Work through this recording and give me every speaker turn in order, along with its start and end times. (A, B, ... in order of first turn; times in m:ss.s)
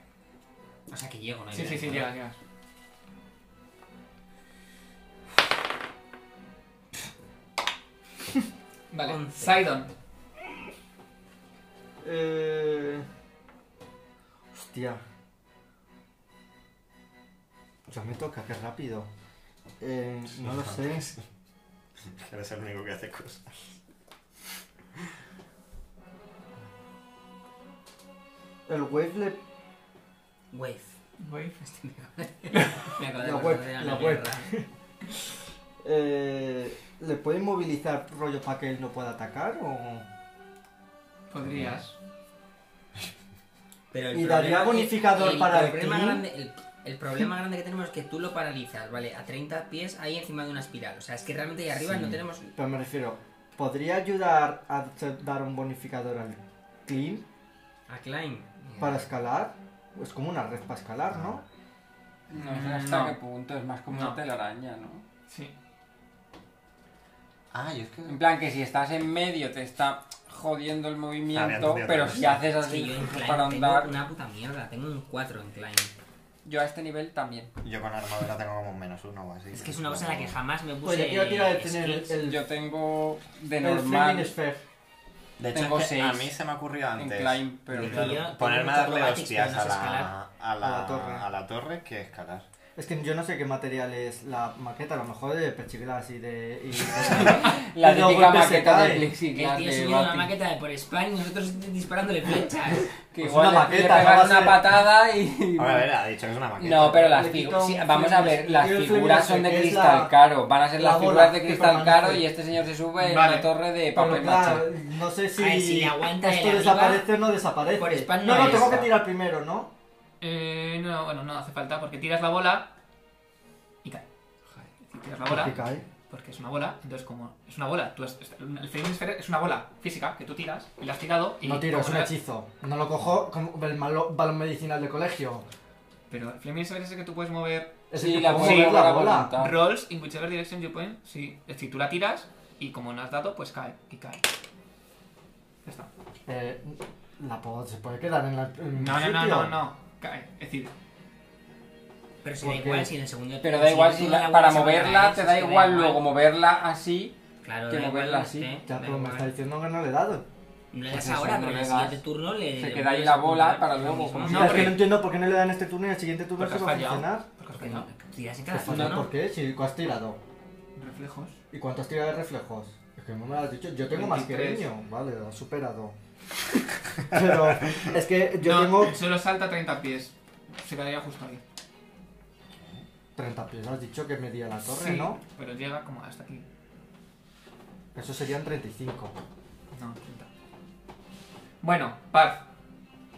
0:00.9-0:02.1 A
0:01.5-0:02.4 B
0:08.9-0:09.9 B
0:09.0-0:09.6 A
0:12.0-0:13.1 C
0:14.5-0:15.0 C
0:17.9-0:19.1 C
0:19.8-0:21.1 C
0:20.4-0:21.2 D
0:22.1-0:23.6 D
0:28.7-0:29.4 C
0:30.5-0:31.0 A
0:31.2-0:31.6 B
0:31.6-0:34.5 A
0:32.5-0:32.9 B
0:33.2-0:34.7 C
0:35.8-0:40.1 C
0:41.3-0:42.0 B
0:41.5-0:41.8 D
0:43.9-0:52.5 A
0:44.1-0:46.2 C
0:52.6-0:57.3 C
0:57.9-0:59.1 A
0:58.8-1:01.4 C
1:02.3-1:05.0 E
1:02.3-1:03.2 B
1:03.9-1:04.2 B
1:07.5-1:08.2 D
1:08.1-1:14.0 E
1:11.3-1:12.5 D
1:12.6-1:15.9 A
1:16.4-1:17.5 E
1:17.6-1:20.4 D
1:19.5-1:22.2 A
1:20.8-1:22.4 C
1:22.2-1:24.3 E
1:23.6-1:24.6 C
1:25.4-1:32.5 D
1:25.5-1:26.3 E
1:27.0-1:28.2 E
1:27.7-1:30.1 A
1:30.6-1:31.3 C
1:32.8-1:39.1 C
1:37.3-1:40.3 E
1:39.3-1:42.9 A
1:43.1-1:45.9 E
1:43.2-1:44.6 C
1:45.6-1:47.2 D
1:46.6-1:54.8 E
1:47.1-1:50.1 C
1:50.8-1:52.2 C
1:53.0-1:53.5 B
1:53.9-1:59.7 C
1:55.4-1:57.1 A
1:57.7-1:59.0 A
2:00.2-2:02.7 B
2:04.9-2:05.6 B
2:05.3-2:05.8 C
2:06.1-2:12.1 B
2:11.4-2:15.4 C
2:16.1-2:24.2 B
2:17.9-2:19.3 C
2:18.0-2:19.6 E
2:25.6-2:25.9 B
2:26.3-2:29.6 C
2:28.8-2:30.7 B
2:32.2-2:36.0 A
2:32.4-2:32.9 C
2:33.4-2:37.2 E
2:37.4-2:39.3 A
2:37.7-2:38.6 E
2:38.7-2:40.2 C
2:40.7-2:44.8 A
2:40.9-2:42.0 E
2:42.6-2:44.7 E
2:44.3-2:44.9 B
2:44.3-2:47.2 C
2:46.4-2:47.9 B
2:47.5-2:49.1 A
2:48.5-2:50.2 C
2:48.7-2:49.0 E
2:50.8-2:51.4 B
2:51.5-2:56.0 C
2:53.9-2:54.7 B
2:57.1-2:59.0 C
2:58.4-3:01.4 B
3:02.5-3:02.9 D
3:03.2-3:05.2 C
3:04.7-3:06.4 B
3:08.0-3:09.2 C
3:09.7-3:10.3 B
3:11.6-3:12.4 B